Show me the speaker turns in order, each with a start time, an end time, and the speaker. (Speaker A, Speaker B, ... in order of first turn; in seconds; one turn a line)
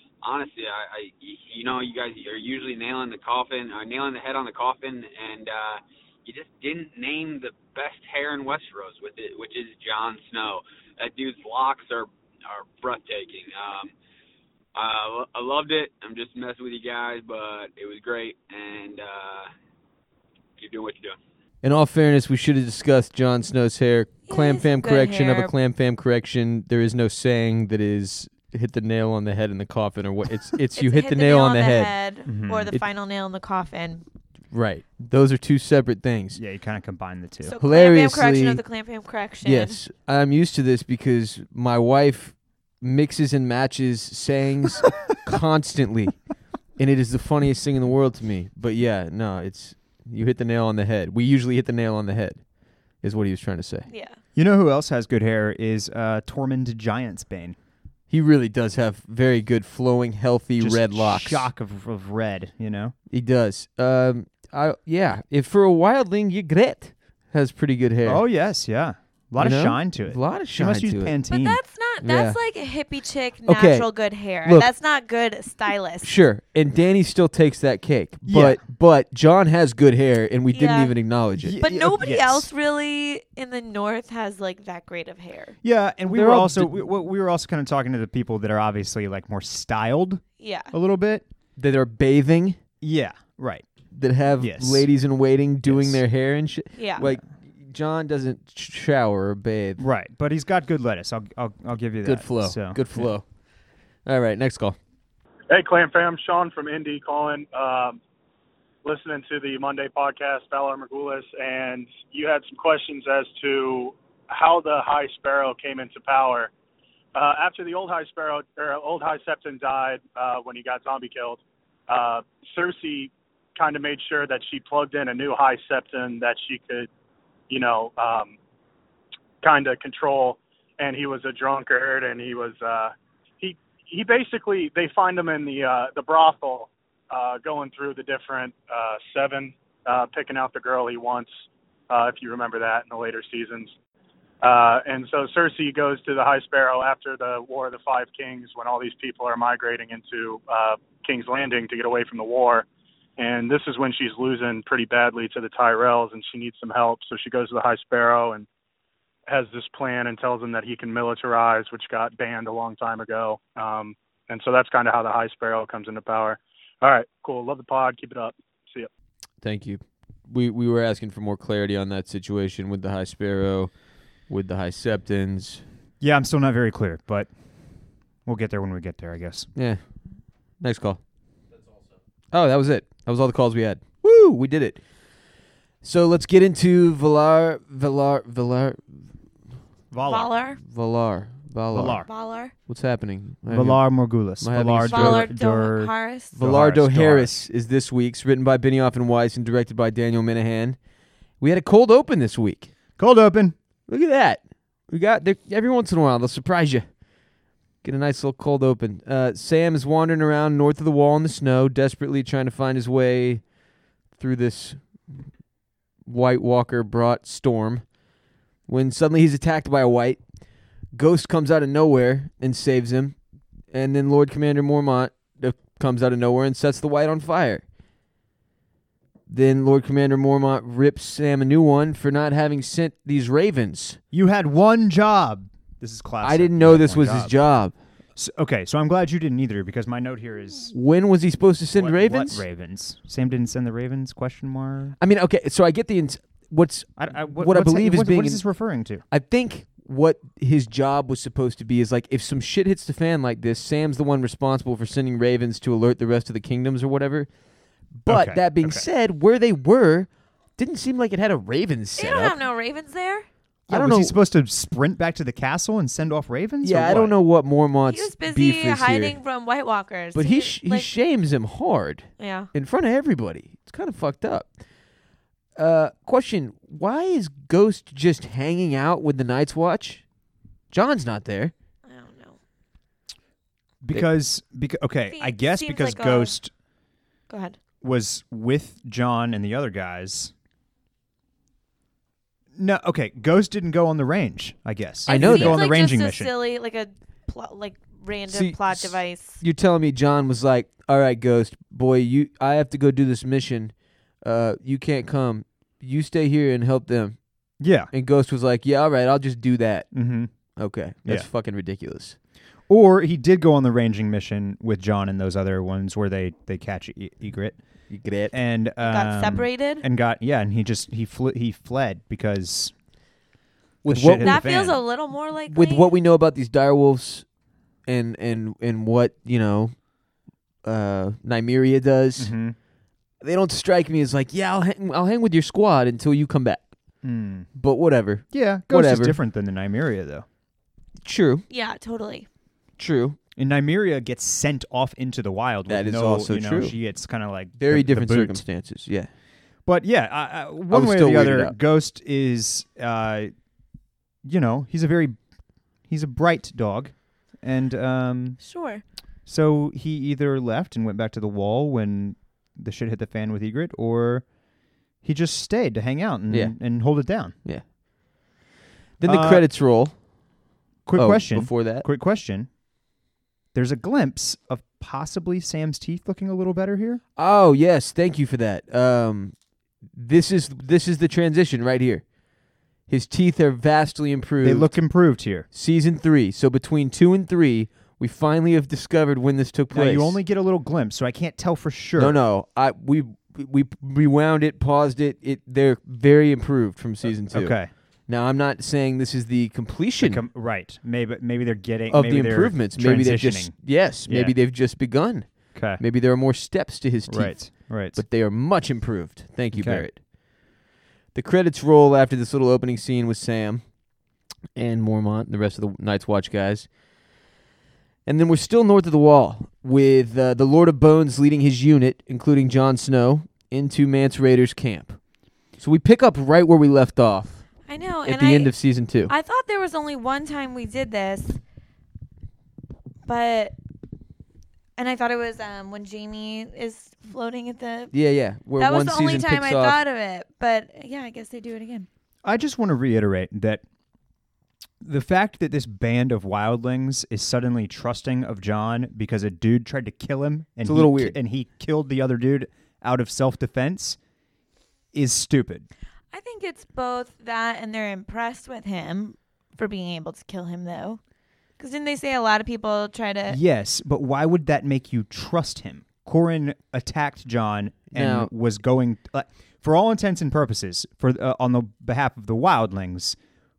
Speaker A: 0.2-13.9
Speaker A: 14.8-19.5
Speaker A: 20.6-21.2
Speaker B: 21.6-31.9
Speaker C: 24.3-25.5
Speaker C: 30.8-34.0
Speaker D: 32.2-32.8
Speaker B: 34.5-36.4
Speaker D: 36.4-37.5
Speaker C: 37.4-39.8
Speaker B: 37.6-38.6
Speaker B: 39.4-46.2
Speaker B: 46.8-52.4
Speaker B: 53.0-53.9
Speaker C: 53.9-54.2
Speaker D: 54.4-57.5
Speaker B: 58.1-61.5
Speaker D: 60.6-62.9
Speaker B: 63.1-68.2
Speaker D: 68.0-71.6
Speaker B: 69.4-71.2
Speaker C: 71.3-76.1
Speaker B: 72.0-72.4
Speaker B: 73.4-73.9
Speaker B: 76.0-81.5
Speaker D: 78.3-78.6
Speaker C: 80.5-80.9
Speaker D: 81.4-82.5
Speaker C: 81.6-85.6
Speaker D: 85.6-91.2
Speaker B: 86.1-86.9
Speaker C: 90.4-90.7
Speaker B: 91.6-92.6
Speaker D: 92.8-93.7
Speaker B: 93.9-99.8
Speaker D: 94.4-94.9
Speaker D: 95.6-96.0
Speaker C: 96.7-97.0
Speaker D: 97.0-97.2
Speaker D: 99.8-103.1
Speaker B: 102.0-103.3
Speaker B: 104.0-104.8
Speaker E: 105.5-108.0
Speaker E: 108.8-116.5
Speaker E: 117.1-126.9
Speaker E: 127.5-128.4
Speaker E: 129.4-141.3
Speaker E: 141.9-143.7
Speaker E: 144.4-152.7
Speaker E: 153.2-158.5
Speaker E: 159.3-168.9
Speaker B: 169.4-175.6
Speaker D: 176.0-177.3
Speaker D: 178.2-179.5
Speaker B: 179.5-179.8
Speaker B: 180.6-181.0
Speaker B: 182.3-184.8
Speaker B: 185.8-189.1
Speaker D: 189.9-190.3
Speaker C: 190.0-190.6
Speaker B: 190.6-192.1
Speaker D: 191.7-192.1
Speaker C: 192.0-192.5
Speaker B: 192.6-195.3
Speaker D: 193.5-197.4
Speaker C: 194.9-196.3
Speaker B: 196.3-200.8
Speaker B: 201.4-202.7
Speaker D: 203.0-203.6
Speaker B: 203.9-206.9
Speaker B: 207.8-213.4
Speaker B: 214.1-215.2
Speaker B: 216.1-217.9
Speaker B: 218.7-220.2
Speaker B: 220.9-223.2
Speaker B: 223.7-227.6
Speaker B: 229.3-234.0
Speaker D: 234.1-237.4
Speaker B: 236.2-237.7
Speaker D: 238.2-240.7
Speaker B: 240.7-242.4
Speaker D: 241.8-245.0
Speaker B: 245.0-248.4
Speaker D: 247.0-249.0
Speaker B: 249.1-257.3
Speaker B: 257.9-262.4
Speaker D: 258.1-258.9
Speaker C: 262.0-263.3
Speaker B: 263.7-264.2
Speaker D: 263.7-267.1
Speaker B: 266.6-269.2
Speaker C: 267.9-270.9
Speaker B: 270.1-274.5
Speaker C: 272.2-272.5
Speaker B: 275.6-280.0
Speaker B: 280.7-281.5
Speaker C: 281.9-282.4
Speaker D: 283.8-286.5
Speaker C: 285.1-286.4
Speaker C: 287.3-287.6
Speaker D: 287.8-290.3
Speaker D: 292.5-296.3
Speaker C: 295.1-299.4
Speaker B: 295.1-295.6
Speaker B: 298.3-307.2
Speaker D: 307.6-307.9
Speaker B: 307.9-309.9
Speaker D: 309.9-310.3
Speaker B: 310.6-312.2
Speaker D: 312.7-317.6
Speaker B: 317.9-318.3
Speaker D: 318.3-322.7
Speaker C: 318.8-319.9
Speaker B: 323.8-324.4
Speaker D: 323.9-324.8
Speaker C: 324.2-325.9
Speaker B: 325.5-327.2
Speaker B: 327.9-329.8
Speaker B: 330.6-332.3
Speaker D: 332.2-332.6
Speaker B: 333.2-336.7
Speaker D: 337.0-337.5
Speaker B: 337.5-339.2
Speaker D: 338.3-340.2
Speaker B: 341.0-341.4
Speaker C: 341.5-342.3
Speaker B: 342.8-343.2
Speaker D: 343.4-348.4
Speaker B: 345.7-346.8
Speaker B: 347.6-349.1
Speaker D: 349.6-353.3
Speaker B: 350.7-351.6
Speaker D: 354.2-355.2
Speaker D: 355.9-358.4
Speaker C: 358.4-358.8
Speaker D: 359.2-364.3
Speaker D: 365.0-367.4
Speaker B: 366.3-366.6
Speaker B: 369.0-369.9
Speaker D: 369.0-369.5
Speaker D: 370.9-372.5
Speaker B: 370.9-371.9
Speaker D: 373.5-377.0
Speaker B: 377.1-379.4
Speaker B: 379.9-382.1
Speaker B: 382.9-384.8
Speaker D: 384.4-385.5
Speaker B: 385.5-390.2
Speaker D: 389.7-392.2
Speaker B: 392.0-400.2
Speaker D: 397.2-397.7
Speaker D: 400.0-404.4
Speaker B: 401.9-410.0
Speaker D: 405.6-405.8
Speaker D: 407.1-408.0
Speaker D: 409.5-409.9
Speaker B: 411.1-413.6
Speaker B: 414.6-416.7
Speaker B: 418.1-425.0
Speaker B: 425.6-427.4
Speaker C: 427.7-428.6
Speaker B: 428.1-429.1
Speaker C: 429.1-431.4
Speaker C: 433.1-433.6
Speaker C: 434.8-437.9
Speaker B: 437.9-439.8
Speaker C: 438.6-441.9
Speaker D: 442.2-443.6
Speaker D: 444.8-454.0
Speaker B: 450.6-451.2
Speaker D: 454.9-455.7
Speaker C: 456.1-461.0
Speaker C: 461.6-463.4
Speaker D: 463.3-473.2
Speaker B: 467.9-468.3